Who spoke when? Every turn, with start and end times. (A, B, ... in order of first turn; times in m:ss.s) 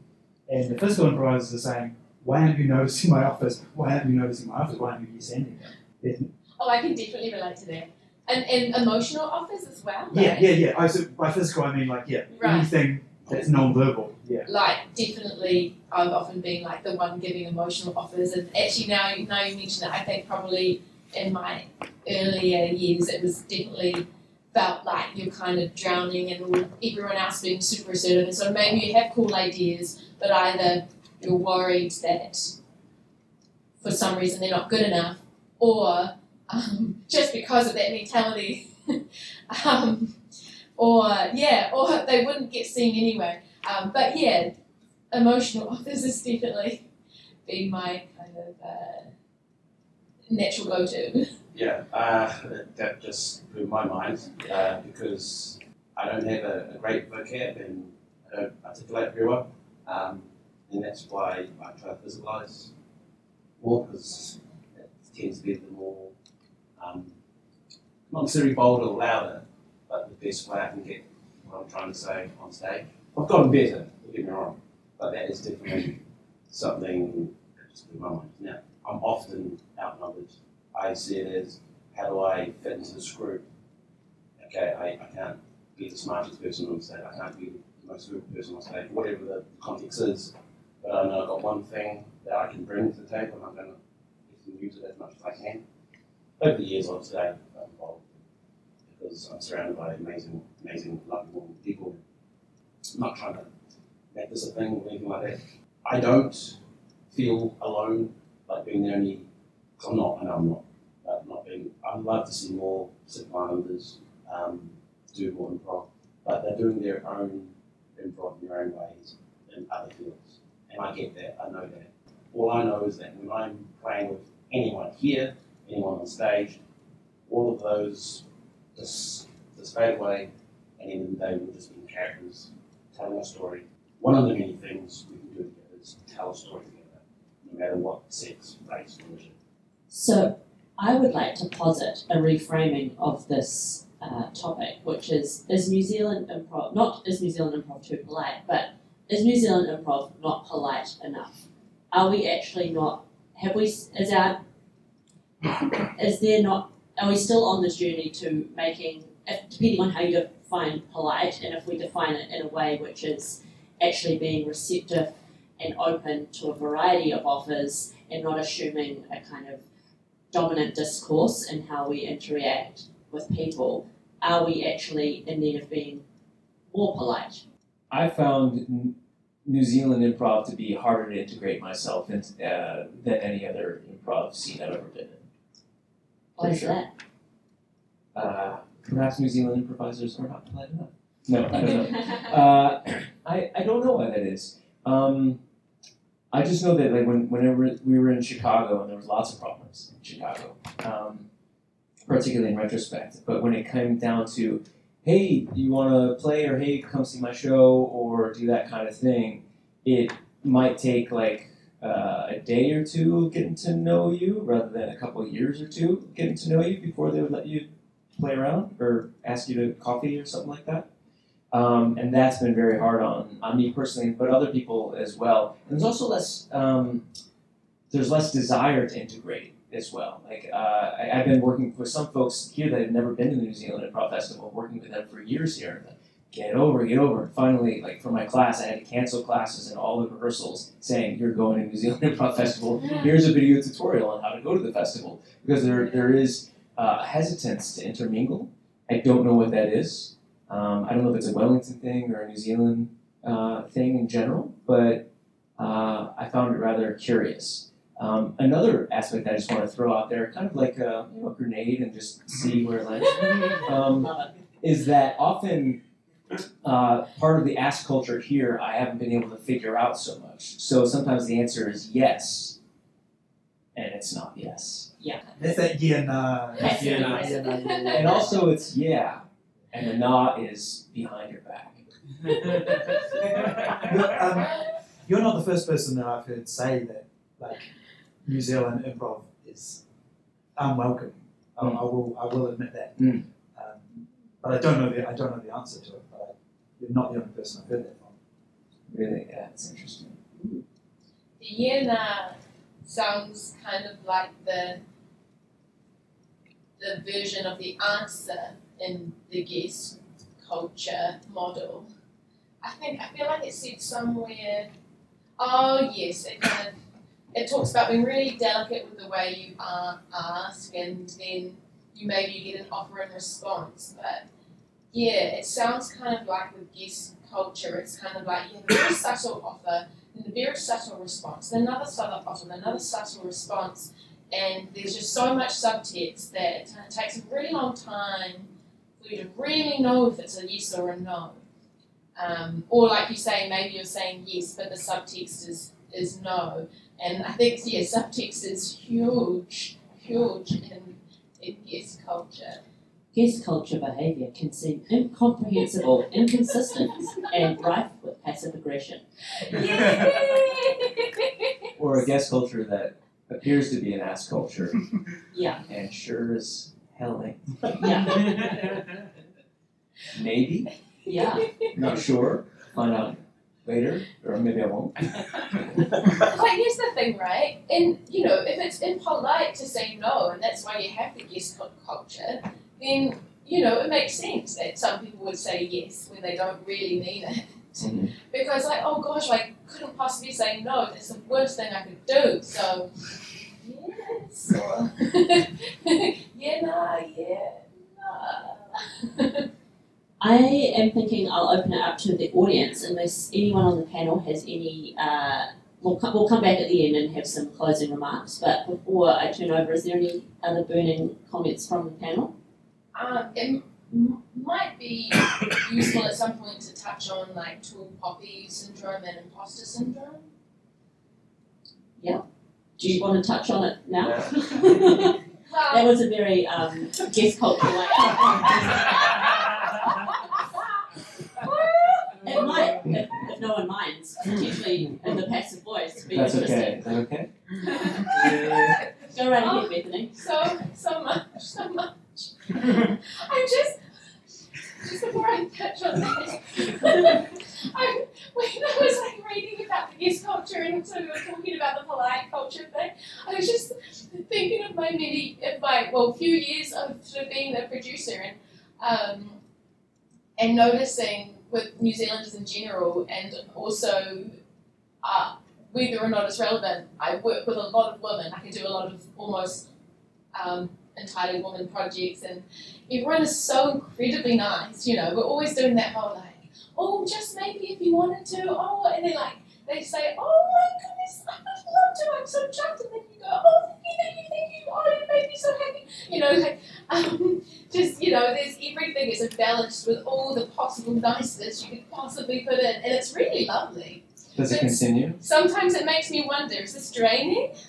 0:00.5-0:06.3 A
0:06.6-0:10.6 B
0:10.1-0:14.5 A
0:12.3-0:12.7 B
0:14.4-0:32.5 B
0:33.8-0:40.2 B
0:40.8-0:44.5 B
0:45.1-0:46.8 B
0:47.4-0:49.1 B
0:50.3-0:51.3 B
0:51.5-1:02.7 C
1:03.6-1:04.4 C
1:05.0-1:06.1 C
1:06.8-1:07.1 C
1:08.1-1:16.0 C
1:16.5-1:23.4 C
1:24.4-1:33.8 C
1:34.3-1:35.6 C
1:36.4-1:38.2 C
1:38.9-1:42.0 C
1:42.9-1:43.5 C
1:44.1-1:46.6 C
1:47.1-1:49.2 C
1:49.8-2:06.6 C
2:07.3-2:08.2 C
2:08.7-2:10.3 C
2:10.8-2:19.3 C
2:19.9-2:31.4 D
2:31.9-2:34.4 D
2:35.7-2:49.6 D
2:50.3-2:56.0 D
2:56.7-2:57.4 D
2:57.9-2:58.9 E
2:59.4-3:05.2 E
3:06.4-3:06.8 E
3:06.4-3:06.9 D
3:08.1-3:15.4 E
3:11.6-3:12.3 D
3:16.3-3:21.2 E
3:22.0-3:40.8 E
3:41.5-3:47.0 E
3:47.9-4:15.0 E
4:15.6-4:24.1 E
4:23.5-4:24.3 D
4:24.6-4:25.8 E
4:26.3-4:32.6 E
4:33.7-4:34.9 E
4:35.0-4:35.2 D
4:35.4-4:38.2 A
4:36.6-4:37.6 D
4:36.8-4:37.2 E
4:36.9-4:38.2 B
4:37.9-4:43.9 E
4:42.3-4:43.4 B
4:43.8-4:47.7 A
4:48.2-4:49.8 A
4:50.6-4:58.1 A
4:53.0-4:53.2 E
4:58.9-5:00.2 E
5:01.4-5:04.8 B
5:06.8-5:11.9 B
5:12.6-5:14.7 B
5:15.4-5:16.7 B
5:17.3-5:24.2 B
5:24.9-5:38.5 B
5:39.0-5:41.4 B
5:42.2-5:52.6 B
5:53.1-5:59.0 D
5:59.3-6:01.6 B
6:01.8-6:04.9 E
6:05.3-6:05.6 D
6:05.7-6:09.0 E
6:07.8-6:08.8 D
6:10.1-6:10.7 E
6:11.0-6:11.5 D
6:11.1-6:11.7 B
6:11.7-6:15.9 E
6:16.2-6:39.4 B
6:27.8-6:28.1 E
6:40.2-6:52.3 D
6:52.9-7:00.2 B
7:02.8-7:05.2 D
7:05.4-7:05.9 B
7:05.7-7:09.0 D
7:08.1-7:09.2 B
7:10.0-7:10.8 B
7:11.3-7:12.8 B
7:12.1-7:16.8 D
7:16.1-7:17.3 E
7:17.6-7:20.2 D
7:17.8-7:18.8 E
7:18.1-7:18.8 B
7:19.4-7:23.8 B
7:24.8-7:39.4 B
7:40.4-7:44.3 B
7:45.0-7:49.7 B
7:50.3-8:17.5 B
8:14.4-8:15.2 E